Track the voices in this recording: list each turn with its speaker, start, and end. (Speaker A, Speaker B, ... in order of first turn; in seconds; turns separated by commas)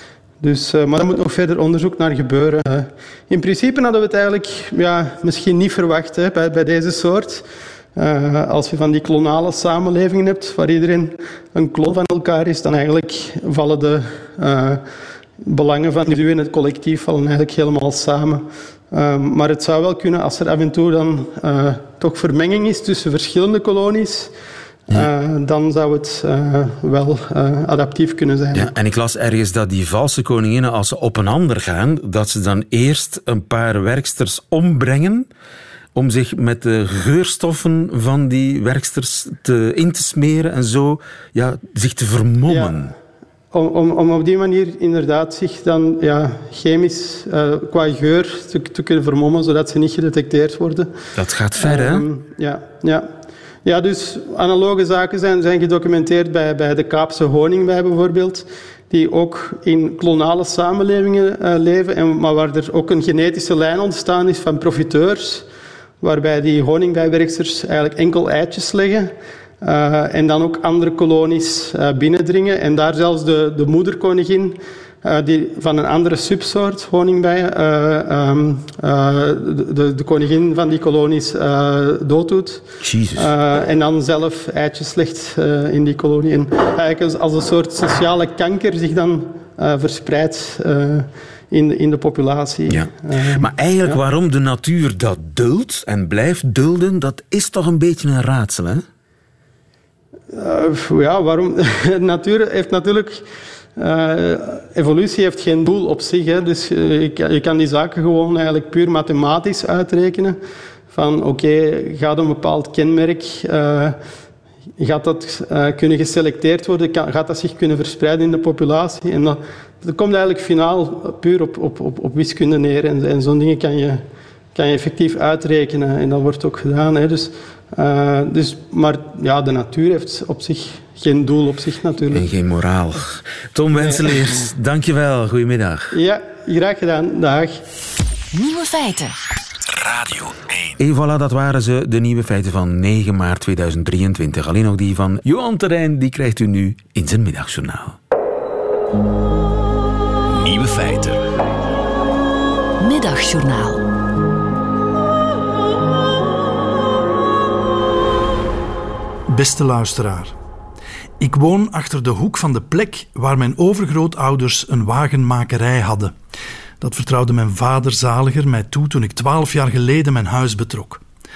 Speaker A: 0.4-7.5, Speaker A: 8.0-14.8, Speaker A: 15.4-24.3, Speaker A: 24.9-28.7, Speaker B: 28.5-35.3, Speaker B: 36.0-42.9, Speaker A: 42.5-42.8, Speaker A: 43.5-50.9, Speaker B: 51.1-52.0, Speaker A: 51.6-53.1, Speaker A: 53.6-65.5, Speaker A: 66.0-94.0, Speaker B: 82.8-83.3, Speaker B: 92.7-98.8, Speaker A: 100.3-103.2, Speaker A: 103.8-110.4, Speaker A: 110.9-114.0, Speaker A: 114.8-124.0, Speaker A: 124.5-132.3, Speaker B: 132.1-135.9, Speaker A: 133.7-134.3, Speaker A: 135.9-137.6, Speaker C: 138.3-139.2, Speaker D: 139.7-140.7, Speaker B: 140.8-148.0, Speaker D: 150.3-151.3, Speaker C: 152.8-153.9, Speaker E: 159.3-160.3, Speaker E: 161.2-166.2, Speaker E: 166.8-171.0